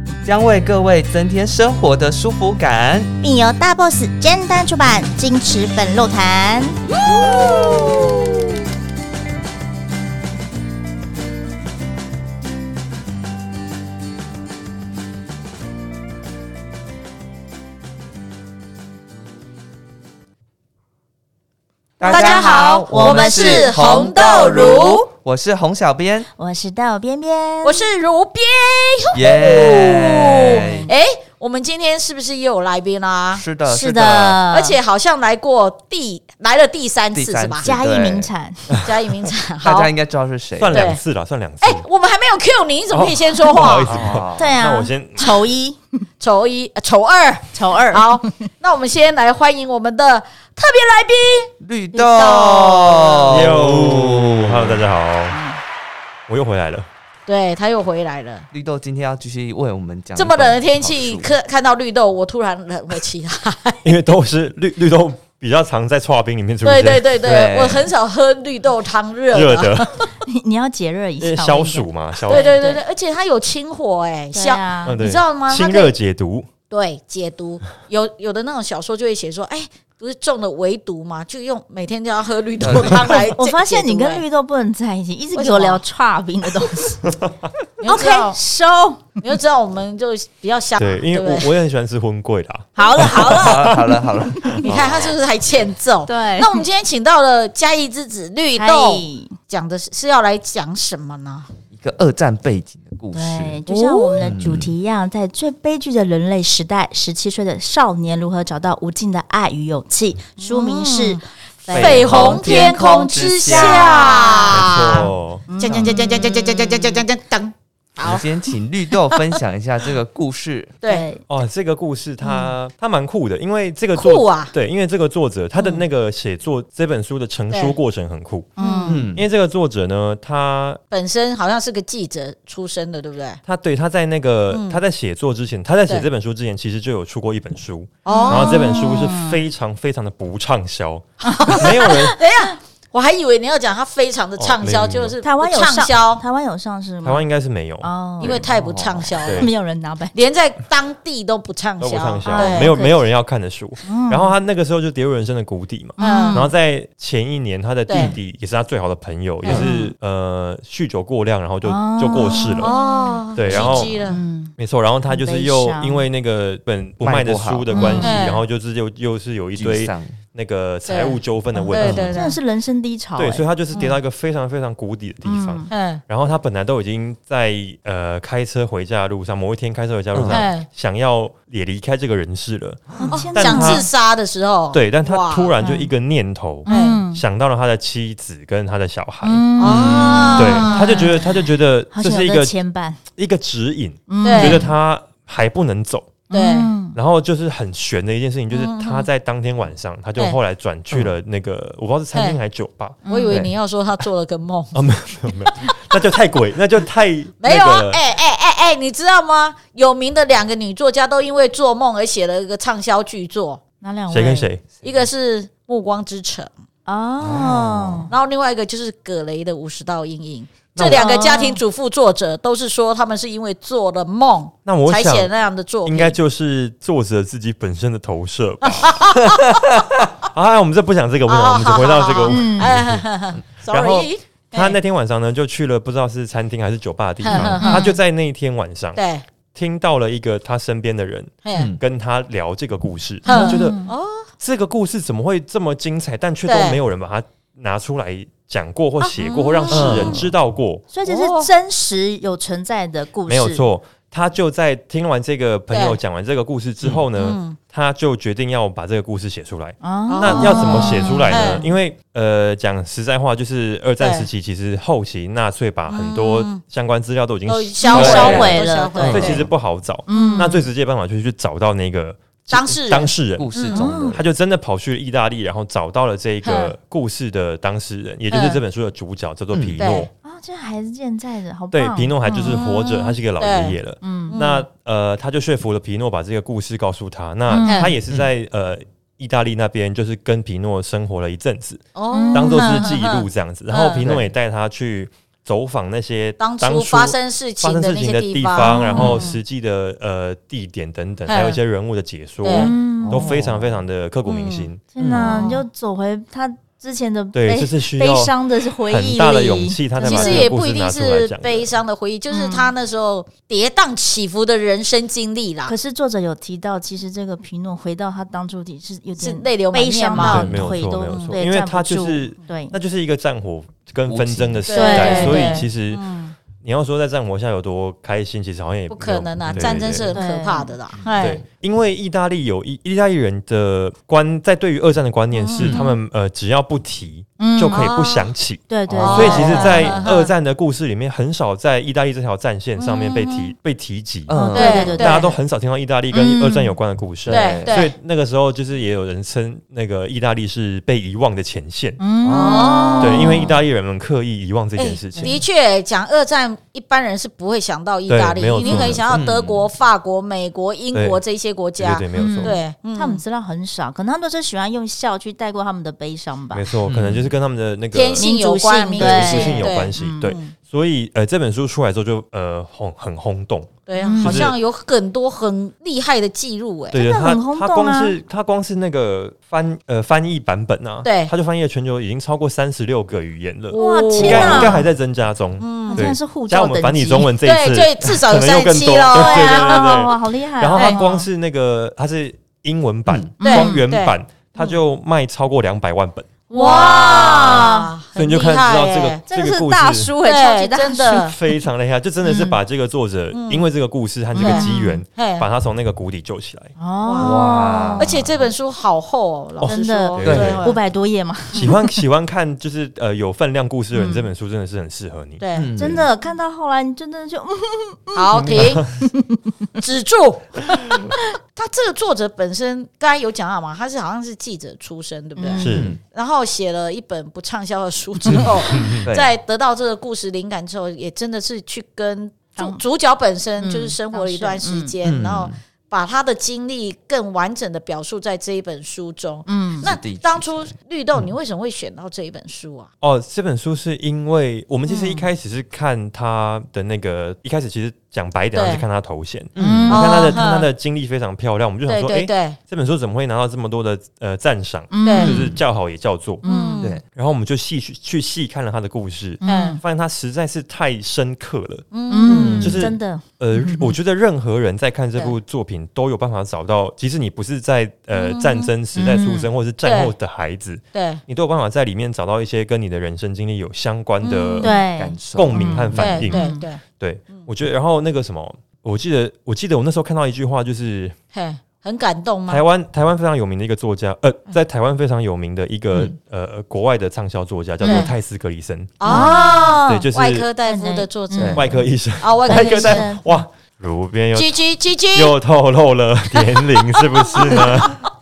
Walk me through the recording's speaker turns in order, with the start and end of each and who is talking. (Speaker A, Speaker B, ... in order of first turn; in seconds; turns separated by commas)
Speaker A: 0.2-3.1, Speaker B: 3.2-6.8, Speaker C: 7.0-8.1, Speaker A: 7.0-7.9, Speaker A: 22.0-26.3, Speaker C: 22.1-25.0, Speaker B: 22.1-24.6, Speaker B: 26.4-27.8, Speaker C: 27.6-33.4, Speaker A: 29.1-30.9, Speaker B: 30.3-30.9, Speaker A: 33.3-34.4, Speaker B: 33.6-34.8, Speaker C: 34.5-37.7, Speaker A: 37.1-38.3, Speaker B: 37.6-38.6, Speaker C: 38.8-39.9, Speaker A: 39.6-40.9, Speaker D: 40.6-41.8, Speaker C: 40.7-41.0, Speaker C: 41.6-44.2, Speaker D: 42.9-45.4, Speaker A: 43.8-44.5, Speaker B: 44.4-46.0, Speaker C: 46.2-51.5, Speaker B: 47.5-48.3, Speaker A: 51.6-54.8, Speaker B: 51.9-52.6, Speaker C: 52.1-53.4, Speaker D: 53.3-55.4, Speaker B: 55.3-55.6, Speaker D: 56.3-56.9, Speaker C: 57.3-58.5, Speaker A: 58.5-61.3, Speaker C: 60.1-63.9, Speaker D: 63.8-67.1, Speaker C: 66.6-69.9, Speaker A: 67.2-67.9, Speaker D: 69.3-69.9, Speaker B: 70.2-72.8, Speaker D: 71.2-72.5, Speaker C: 72.3-75.9, Speaker B: 74.3-75.0, Speaker D: 74.8-76.5, Speaker C: 76.7-84.2, Speaker A: 82.6-83.3, Speaker B: 82.8-87.0, Speaker C: 85.3-85.8, Speaker D: 87.0-87.3, Speaker C: 87.8-88.4, Speaker B: 87.8-89.2, Speaker C: 89.2-91.5, Speaker D: 90.8-93.8, Speaker B: 92.8-94.6, Speaker A: 93.0-95.1, Speaker D: 94.6-95.1, Speaker C: 94.6-101.5, Speaker B: 96.1-96.6, Speaker B: 98.6-99.4, Speaker A: 101.7-103.6, Speaker B: 103.1-114.5, Speaker C: 103.7-104.2, Speaker A: 104.2-104.7, Speaker C: 110.4-115.1, Speaker A: 111.7-115.0, Speaker D: 114.5-115.5, Speaker B: 115.5-117.0, Speaker C: 115.6-118.3, Speaker A: 118.0-120.8, Speaker C: 120.8-121.1, Speaker B: 120.8-121.2, Speaker D: 121.3-128.6, Speaker C: 123.9-124.5, Speaker B: 128.6-129.0, Speaker C: 128.6-129.1, Speaker A: 128.9-129.2, Speaker D: 129.1-130.8, Speaker C: 130.9-133.4, Speaker D: 133.4-142.2, Speaker C: 134.5-134.8, Speaker C: 138.0-138.8, Speaker B: 138.1-139.4, Speaker B: 141.2-142.5, Speaker C: 141.3-146.2, Speaker D: 144.4-145.2, Speaker B: 145.2-147.2, Speaker D: 147.0-147.9, Speaker B: 147.8-148.4, Speaker C: 148.2-149.5, Speaker A: 148.2-149.3, Speaker D: 149.2-149.5, Speaker B: 149.3-150.2, Speaker C: 150.1-152.9, Speaker D: 151.8-162.7, Speaker B: 152.2-152.9, Speaker B: 153.8-154.3, Speaker B: 156.0-156.5, Speaker C: 156.0-156.4, Speaker C: 157.9-158.1, Speaker C: 159.4-159.7, Speaker B: 159.5-159.9, Speaker B: 161.6-164.5, Speaker C: 162.6-164.2, Speaker D: 163.3-172.1, Speaker B: 165.1-166.0, Speaker A: 167.0-167.9, Speaker B: 167.7-168.2, Speaker C: 167.8-168.4, Speaker A: 169.5-170.2, Speaker C: 170.9-172.4, Speaker B: 171.5-173.4, Speaker A: 171.8-172.1, Speaker D: 173.2-183.8, Speaker B: 175.2-175.7, Speaker C: 175.7-176.0, Speaker A: 180.1-180.4, Speaker C: 180.3-180.7, Speaker B: 183.0-183.9, Speaker C: 183.1-185.6, Speaker D: 184.7-189.4, Speaker B: 185.6-185.9, Speaker B: 186.7-187.2, Speaker C: 186.7-187.0, Speaker B: 189.2-193.0, Speaker C: 189.6-191.1, Speaker A: 189.6-190.4, Speaker D: 190.3-192.5, Speaker D: 193.1-196.2, Speaker B: 194.1-194.7, Speaker C: 194.2-194.6, Speaker C: 196.3-196.7, Speaker B: 196.3-196.9, Speaker D: 196.9-203.5, Speaker C: 198.5-199.1, Speaker B: 203.0-203.4, Speaker C: 203.1-204.8, Speaker D: 204.7-208.0, Speaker C: 207.4-213.6, Speaker B: 213.8-214.5, Speaker D: 214.1-214.6, Speaker C: 214.8-216.5, Speaker B: 216.8-218.1, Speaker A: 217.2-218.1, Speaker C: 218.1-226.2, Speaker D: 220.7-221.1, Speaker B: 220.9-221.6, Speaker D: 224.7-225.3, Speaker D: 225.8-229.6, Speaker C: 228.6-229.6, Speaker D: 230.2-233.1, Speaker C: 231.3-234.7, Speaker B: 232.3-232.7, Speaker D: 233.6-239.0, Speaker C: 237.2-238.0, Speaker A: 237.3-237.6, Speaker B: 237.6-237.9, Speaker C: 238.9-239.2, Speaker D: 239.5-243.8, Speaker C: 241.4-241.7, Speaker A: 241.5-241.8, Speaker B: 243.2-243.9, Speaker C: 243.2-244.3, Speaker D: 244.4-250.8, Speaker C: 246.4-246.8, Speaker C: 249.0-250.2, Speaker A: 249.7-250.3, Speaker B: 250.9-253.6, Speaker C: 251.0-251.5, Speaker D: 253.3-273.5, Speaker C: 255.7-256.0, Speaker C: 257.1-257.6, Speaker B: 259.8-261.7, Speaker C: 260.1-261.6, Speaker C: 264.0-264.3, Speaker C: 265.9-266.6, Speaker C: 267.5-269.5, Speaker B: 267.8-269.4, Speaker A: 267.9-269.5, Speaker B: 270.1-270.6, Speaker C: 270.1-270.6, Speaker C: 272.5-273.9, Speaker A: 273.4-274.2, Speaker B: 273.7-274.2, Speaker D: 274.1-280.1, Speaker C: 276.4-276.7, Speaker C: 278.3-278.6, Speaker C: 279.8-280.1, Speaker B: 280.2-282.6, Speaker D: 281.7-304.8, Speaker C: 282.3-283.8, Speaker B: 284.0-284.4, Speaker C: 284.3-284.6, Speaker B: 287.5-287.9, Speaker C: 287.7-287.9, Speaker C: 291.9-294.1, Speaker B: 292.1-293.0, Speaker A: 294.0-294.3, Speaker C: 296.4-299.4, Speaker B: 298.6-299.1, Speaker A: 298.9-299.2, Speaker C: 301.3-301.6, Speaker C: 302.4-302.7, Speaker B: 302.4-303.3, Speaker A: 303.0-303.8, Speaker C: 304.2-305.6, Speaker B: 304.9-310.5, Speaker A: 305.0-305.5, Speaker D: 307.3-308.3, Speaker D: 308.9-311.7, Speaker C: 310.0-315.7, Speaker B: 312.3-312.7, Speaker B: 315.6-322.7, Speaker C: 319.2-320.4, Speaker D: 320.1-326.0, Speaker A: 320.2-320.7, Speaker C: 321.1-321.4, Speaker A: 324.1-325.1, Speaker C: 324.7-326.3, Speaker B: 324.7-325.6, Speaker D: 326.6-330.2, Speaker C: 328.9-331.4, Speaker A: 329.4-329.8, Speaker B: 330.1-330.7, Speaker A: 331.0-331.4, Speaker D: 331.2-352.0, Speaker C: 335.4-336.0, Speaker B: 337.4-337.9, Speaker C: 337.7-338.3, Speaker B: 338.7-340.1, Speaker A: 338.9-339.6, Speaker C: 339.0-340.3, Speaker B: 342.8-343.5, Speaker A: 344.3-345.0, Speaker B: 344.3-345.3, Speaker C: 344.5-345.4, Speaker B: 346.1-346.7, Speaker A: 347.2-347.9, Speaker C: 347.3-347.9, Speaker B: 352.0-353.6, Speaker A: 352.2-353.2, Speaker C: 352.3-353.5, Speaker D: 353.0-355.4, Speaker C: 354.8-363.2, Speaker D: 358.1-359.0, Speaker B: 358.6-359.0, Speaker A: 359.1-359.6, Speaker D: 360.9-361.2, Speaker D: 361.8-362.6, Speaker B: 362.1-366.7, Speaker D: 366.5-368.3, Speaker A: 366.9-367.3, Speaker C: 367.9-370.5, Speaker B: 368.2-370.3, Speaker D: 368.9-374.6, Speaker C: 373.9-377.0, Speaker B: 374.0-374.5, Speaker D: 376.9-397.6, Speaker B: 376.9-378.1, Speaker C: 381.0-381.3, Speaker C: 383.7-384.9, Speaker B: 383.7-384.8, Speaker C: 385.6-386.1, Speaker B: 385.9-387.3, Speaker C: 387.4-390.1, Speaker B: 389.1-391.2, Speaker C: 390.7-391.0, Speaker B: 393.4-393.8, Speaker C: 393.4-394.7, Speaker C: 396.5-399.2, Speaker B: 396.5-397.9, Speaker D: 398.1-400.1, Speaker B: 399.3-401.3, Speaker C: 400.2-401.4, Speaker D: 401.0-406.7, Speaker B: 402.2-402.6, Speaker C: 403.3-403.6, Speaker B: 404.3-405.0, Speaker C: 404.4-405.5, Speaker B: 406.8-408.2, Speaker C: 407.0-407.4, Speaker A: 407.2-408.2, Speaker C: 408.0-410.8, Speaker D: 409.6-410.6, Speaker B: 409.6-411.8, Speaker A: 410.2-410.6, Speaker D: 411.5-415.4, Speaker B: 413.9-414.2, Speaker C: 415.4-415.7, Speaker A: 415.5-416.0, Speaker B: 415.8-419.5, Speaker C: 418.1-418.9, Speaker D: 418.4-418.9, Speaker C: 419.8-442.9, Speaker B: 420.7-421.3, Speaker B: 425.4-425.9, Speaker D: 425.6-425.9, Speaker A: 425.6-426.0, Speaker A: 428.2-428.5, Speaker D: 428.7-429.1, Speaker A: 429.0-429.3, Speaker B: 433.6-434.9, Speaker A: 435.0-435.6, Speaker B: 439.4-439.9, Speaker A: 439.8-441.3, Speaker D: 443.0-456.4, Speaker C: 444.9-445.2, Speaker C: 448.5-448.8, Speaker A: 449.5-450.1, Speaker B: 449.6-450.4, Speaker C: 449.9-450.7, Speaker C: 451.9-452.6, Speaker B: 454.9-455.4, Speaker C: 455.0-455.3, Speaker A: 455.2-455.6, Speaker B: 456.4-456.8, Speaker C: 456.4-456.9, Speaker D: 457.0-461.9, Speaker B: 459.4-459.8, Speaker C: 459.4-459.8, Speaker C: 461.9-462.7, Speaker B: 462.1-463.9, Speaker A: 462.2-462.8, Speaker D: 462.6-474.8, Speaker C: 468.1-468.7, Speaker B: 468.9-469.5, Speaker C: 469.8-470.1, Speaker C: 470.9-471.2, Speaker C: 474.2-474.8, Speaker B: 474.6-476.6, Speaker A: 474.9-476.3, Speaker D: 475.3-481.1, Speaker C: 475.9-477.5, Speaker C: 481.3-482.6, Speaker D: 482.5-490.5, Speaker B: 487.8-488.1, Speaker C: 487.8-488.1, Speaker C: 489.0-491.6, Speaker B: 489.0-489.8, Speaker B: 490.6-491.6, Speaker A: 491.4-491.6, Speaker D: 491.5-494.6, Speaker C: 492.2-493.0, Speaker B: 492.5-493.2, Speaker C: 494.3-495.3, Speaker D: 495.1-498.0, Speaker C: 496.4-498.1